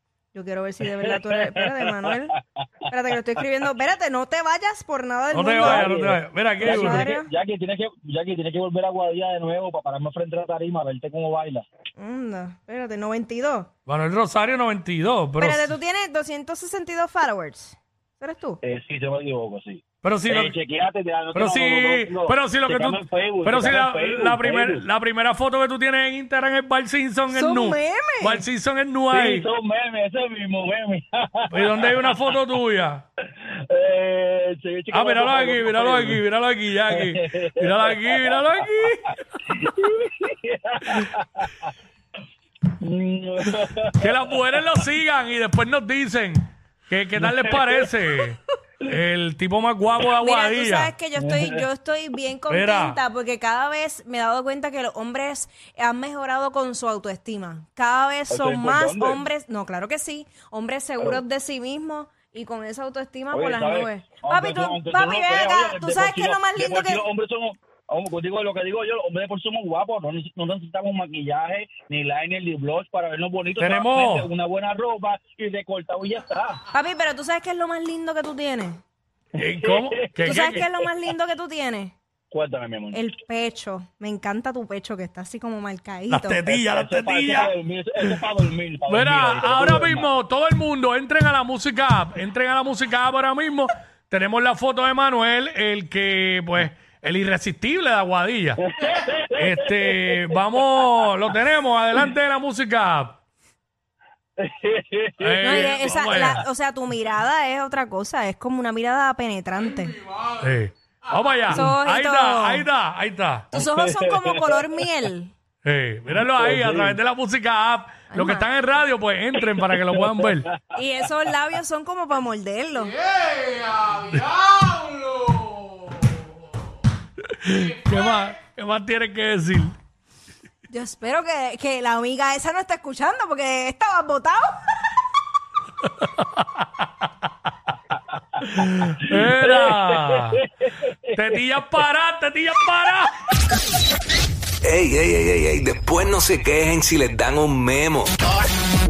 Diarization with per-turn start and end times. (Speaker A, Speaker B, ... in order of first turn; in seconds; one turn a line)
Speaker A: 0.3-2.4
Speaker B: 1.0-2.6
Speaker A: 2.9-5.9
Speaker C: 5.3-7.1
Speaker B: 5.6-11.7
Speaker A: 6.6-7.3
Speaker A: 12.0-13.7
Speaker C: 13.9-15.7
Speaker A: 15.4-18.6
Speaker B: 18.6-24.9
Speaker C: 20.0-20.6
Speaker C: 21.3-29.5
Speaker A: 27.3-28.5
Speaker B: 29.1-32.4
Speaker C: 31.5-33.0
Speaker B: 33.3-36.2
Speaker C: 34.9-39.2
Speaker B: 36.9-38.6
Speaker B: 39.5-41.5
Speaker B: 42.8-44.2
Speaker C: 44.0-50.9
Speaker B: 47.2-48.0
Speaker A: 50.2-67.0
Speaker B: 51.2-51.7
Speaker C: 52.5-53.0
Speaker B: 58.3-59.2
Speaker B: 63.3-76.6
Speaker C: 73.6-74.3
Speaker A: 76.7-78.8
Speaker C: 79.4-80.7
Speaker B: 79.4-80.6
Speaker A: 80.2-81.9
Speaker B: 82.3-83.0
Speaker A: 82.9-86.4
Speaker C: 86.1-88.2
Speaker B: 86.5-90.1
Speaker C: 88.9-98.6
Speaker B: 98.8-100.3
Speaker C: 99.4-103.2
Speaker B: 104.4-105.8
Speaker C: 105.2-106.5
Speaker A: 105.4-110.0
Speaker C: 110.4-113.5
Speaker A: 111.5-112.7
Speaker A: 113.5-115.3
Speaker B: 113.6-114.5
Speaker C: 115.6-120.5
Speaker B: 116.2-117.0
Speaker A: 118.1-118.5
Speaker B: 119.4-120.5
Speaker A: 120.7-123.0
Speaker C: 124.0-125.3
Speaker C: 127.2-129.8
Speaker A: 130.7-134.9
Speaker C: 136.0-136.9
Speaker C: 138.4-140.4
Speaker B: 139.1-141.0
Speaker C: 141.1-143.1
Speaker D: 144.6-148.3